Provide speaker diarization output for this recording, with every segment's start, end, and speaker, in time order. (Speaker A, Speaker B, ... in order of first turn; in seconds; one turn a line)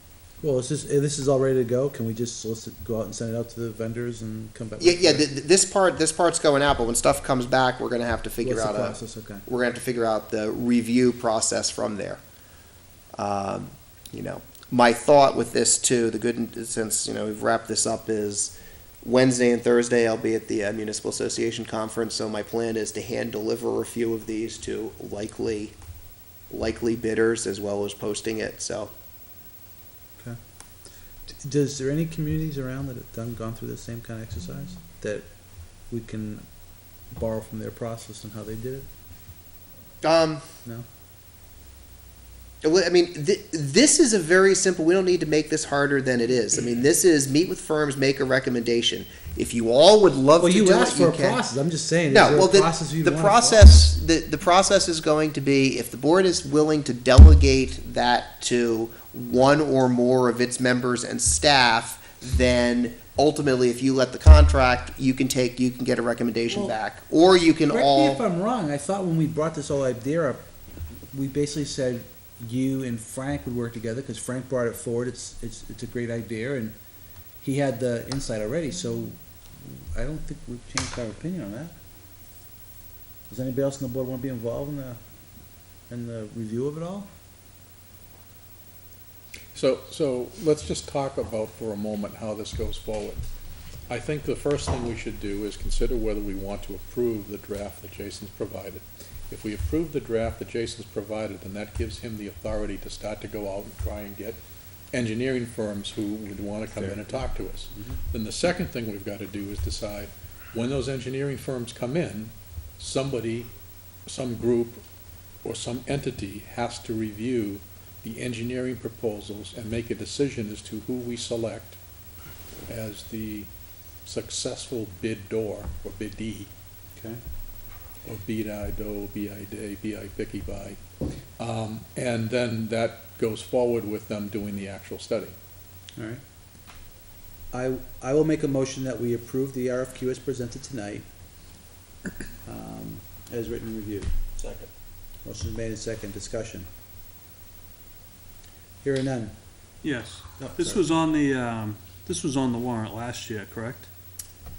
Speaker A: 0.4-5.2
Speaker B: 4.8-12.2
Speaker A: 8.4-9.4
Speaker B: 13.1-25.7
Speaker B: 26.5-28.9
Speaker A: 31.2-36.5
Speaker A: 37.0-38.9
Speaker B: 40.0-40.4
Speaker B: 42.6-51.4
Speaker A: 50.4-53.7
Speaker B: 52.1-68.2
Speaker A: 66.5-66.7
Speaker A: 67.7-70.4
Speaker A: 71.1-76.7
Speaker A: 77.4-81.7
Speaker A: 83.3-85.0
Speaker A: 85.9-87.1
Speaker C: 89.5-93.2
Speaker C: 93.9-104.4
Speaker C: 104.9-113.5
Speaker A: 107.7-108.0
Speaker C: 114.0-114.8
Speaker C: 115.4-121.8
Speaker C: 122.7-123.5
Speaker C: 124.0-126.5
Speaker C: 128.0-130.8
Speaker C: 131.4-135.3
Speaker A: 135.9-136.2
Speaker A: 137.5-141.1
Speaker A: 142.4-144.1
Speaker A: 145.2-146.7
Speaker A: 148.8-149.3
Speaker D: 149.8-153.9
Speaker A: 150.4-150.8